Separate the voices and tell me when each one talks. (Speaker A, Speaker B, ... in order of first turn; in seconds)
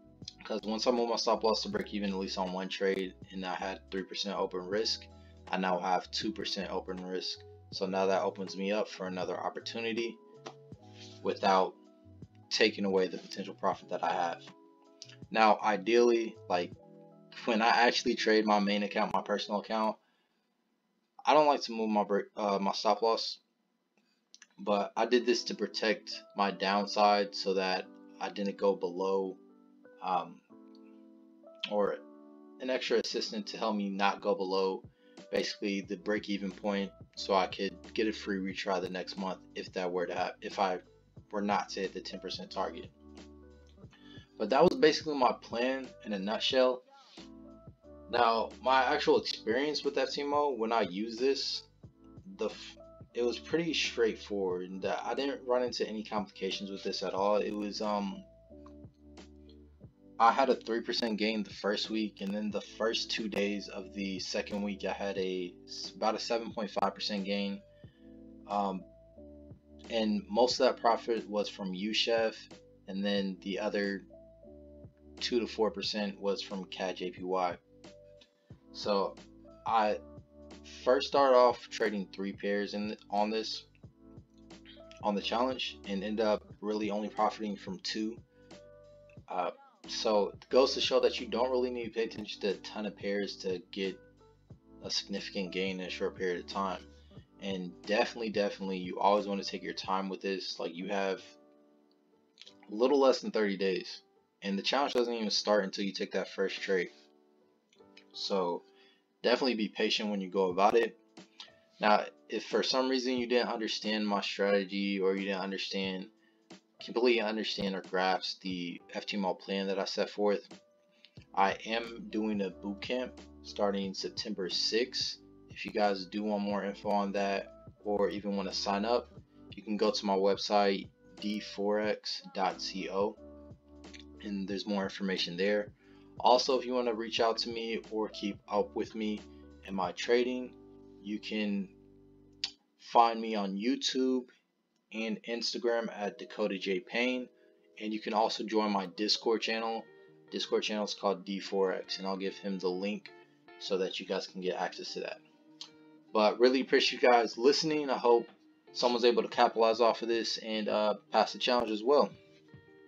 Speaker A: 0.4-10.2, 11.2-11.8, 12.5-14.5, 15.3-16.8, 17.3-20.0, 21.2-23.4, 24.6-29.4, 30.0-30.4, 31.7-32.0, 32.6-42.9, 44.4-46.9, 48.1-51.7, 52.3-58.3, 60.2-67.6, 68.5-68.9, 69.9-74.1, 75.2-77.6, 78.7-80.0, 80.6-83.7, 85.0-88.2, 89.3-94.0, 94.8-96.9, 97.4-101.4, 102.7-106.9, 108.1-108.7, 109.2-111.0, 111.8-116.1, 116.8-120.5, 121.3-133.2, 134.2-141.7, 142.8-144.3, 144.9-155.2, 156.1-162.1